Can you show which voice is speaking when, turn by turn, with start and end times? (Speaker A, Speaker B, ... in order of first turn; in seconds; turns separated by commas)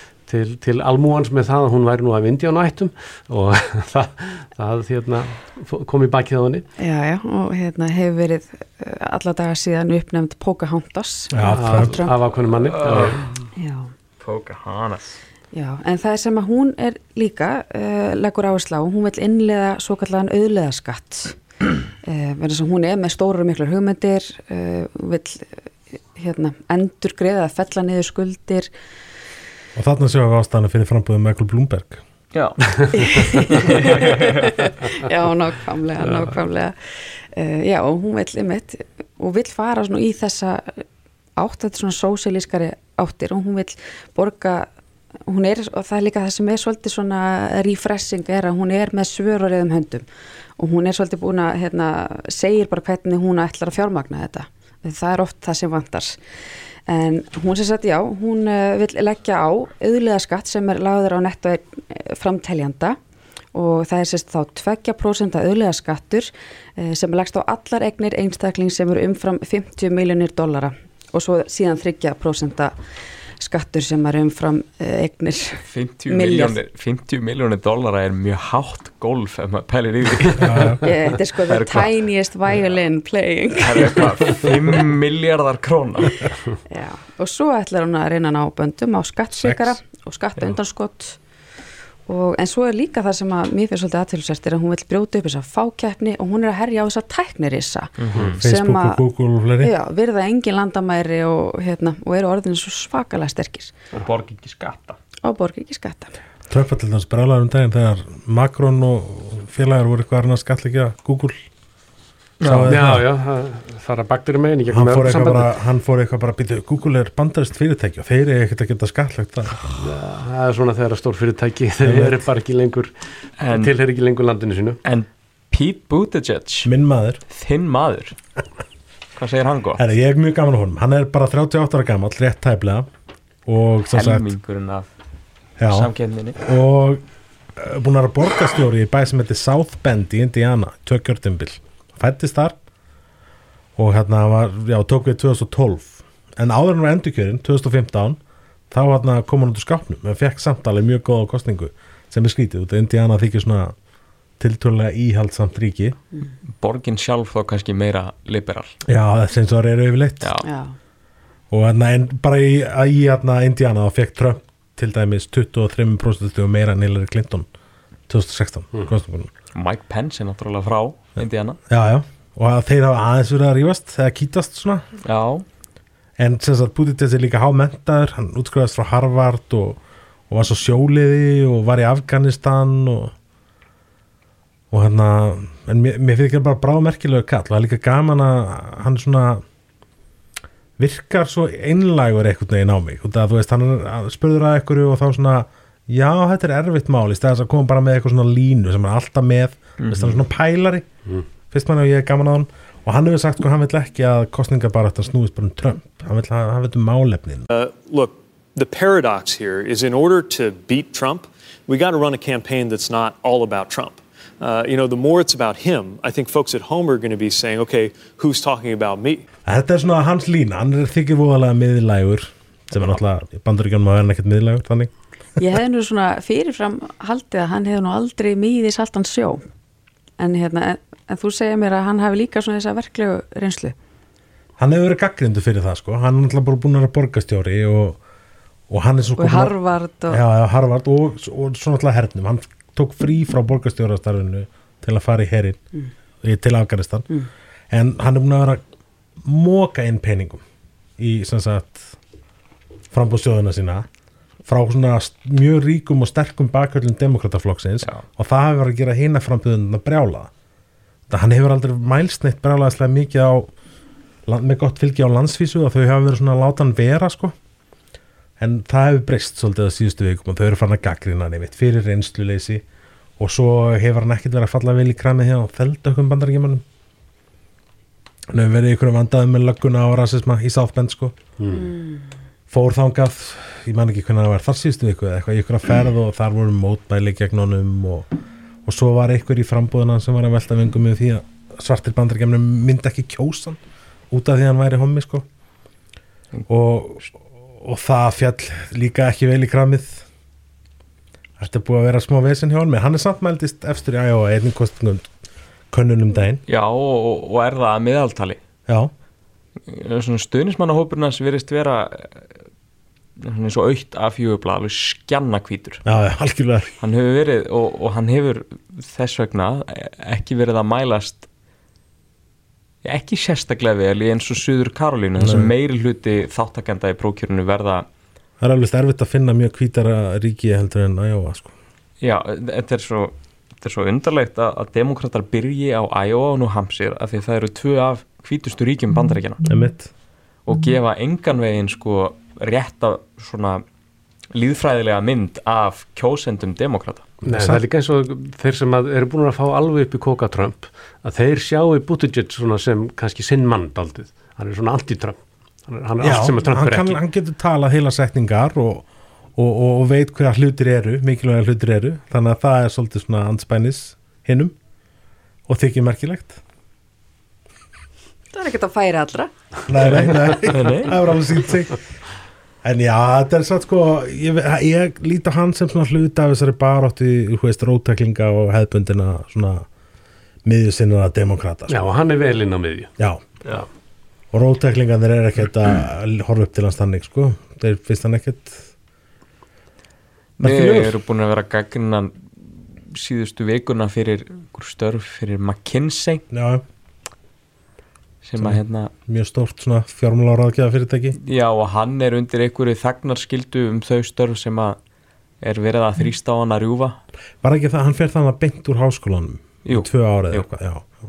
Speaker A: 0.2-6.7, Speaker B: 6.8-12.2, Speaker C: 11.3-12.0, Speaker A: 11.4-13.4, Speaker D: 12.7-13.2, Speaker B: 13.6-13.9, Speaker D: 14.2-15.2, Speaker B: 15.5-21.4, Speaker B: 22.0-25.6, Speaker B: 26.2-28.7, Speaker C: 29.8-32.0, Speaker D: 32.3-32.6, Speaker B: 32.9-40.8, Speaker D: 33.6-34.3, Speaker B: 41.4-44.7, Speaker B: 45.3-50.0, Speaker B: 50.6-56.2, Speaker B: 56.9-63.0, Speaker B: 63.5-72.7, Speaker B: 73.4-76.6, Speaker D: 75.7-80.7, Speaker C: 80.4-80.8, Speaker B: 80.8-84.3, Speaker D: 81.5-81.9, Speaker D: 83.5-86.3, Speaker B: 86.7-91.2, Speaker C: 89.4-89.8, Speaker B: 92.1-99.0, Speaker D: 98.0-98.4, Speaker C: 98.4-99.7, Speaker B: 99.6-103.7, Speaker D: 104.0-105.0, Speaker B: 105.2-106.2, Speaker C: 106.5-111.4, Speaker D: 112.4-112.8, Speaker C: 112.4-113.1, Speaker A: 112.7-115.5, Speaker C: 114.7-119.7, Speaker A: 119.8-122.9, Speaker C: 121.8-122.2, Speaker D: 123.4-123.7, Speaker A: 123.5-124.8, Speaker D: 124.8-126.7, Speaker C: 126.7-127.2, Speaker D: 127.3-128.2, Speaker D: 129.2-129.8, Speaker C: 129.8-132.9, Speaker C: 133.5-134.3, Speaker D: 133.9-134.9, Speaker C: 135.6-137.0, Speaker D: 135.7-136.4, Speaker C: 137.6-142.6, Speaker C: 143.8-148.2, Speaker C: 148.7-153.8, Speaker C: 154.4-156.0, Speaker D: 156.5-158.8, Speaker C: 158.9-160.3, Speaker B: 160.4-160.8, Speaker C: 161.5-167.5, Speaker C: 168.1-169.3, Speaker D: 169.6-171.6, Speaker C: 171.7-174.8, Speaker D: 175.1-175.4, Speaker C: 176.2-183.1, Speaker C: 184.7-189.4, Speaker C: 190.8-200.9, Speaker D: 199.8-200.2, Speaker C: 201.5-207.5, Speaker E: 207.5-219.2, Speaker C: 219.4-224.9, Speaker B: 225.4-229.5, Speaker B: 230.2-233.8, Speaker C: 234.6-238.0, Speaker C: 238.7-239.6, Speaker B: 239.2-240.2, Speaker C: 240.1-245.6, Speaker C: 246.2-247.1, Speaker C: 247.7-248.6, Speaker C: 249.2-250.4, Speaker C: 251.0-251.9, Speaker C: 252.9-253.9, Speaker C: 254.4-260.3, Speaker C: 261.1-263.5, Speaker C: 264.3-267.4, Speaker C: 268.4-272.6, Speaker C: 273.2-276.6, Speaker C: 278.3-281.2, Speaker A: 281.4-281.7, Speaker B: 281.5-282.1, Speaker C: 282.5-288.1, Speaker C: 288.6-293.6, Speaker C: 294.1-295.3, Speaker C: 296.5-300.1, Speaker C: 301.4-305.1, Speaker C: 305.7-306.4, Speaker D: 306.5-308.4, Speaker C: 308.7-308.9, Speaker D: 309.7-312.3, Speaker D: 313.2-315.8, Speaker C: 315.9-316.7, Speaker D: 316.8-321.3, Speaker D: 322.8-327.9, Speaker C: 325.2-325.5, Speaker C: 328.4-331.5, Speaker D: 332.0-339.4, Speaker C: 339.5-339.9, Speaker D: 340.5-343.6, Speaker D: 344.3-347.1, Speaker A: 347.2-357.0, Speaker C: 347.3-347.6, Speaker C: 356.0-364.5, Speaker C: 365.5-366.4, Speaker B: 368.3-369.3, Speaker C: 369.7-371.8, Speaker D: 369.9-370.9, Speaker C: 372.6-379.7, Speaker C: 380.4-381.9, Speaker A: 381.7-382.9, Speaker C: 384.3-388.7, Speaker D: 390.4-396.2, Speaker A: 390.4-390.8, Speaker C: 390.6-390.9, Speaker C: 396.3-396.6, Speaker D: 398.2-398.9, Speaker C: 398.4-401.2, Speaker D: 401.2-404.8, Speaker D: 405.4-407.0, Speaker C: 407.4-410.8, Speaker D: 409.7-410.5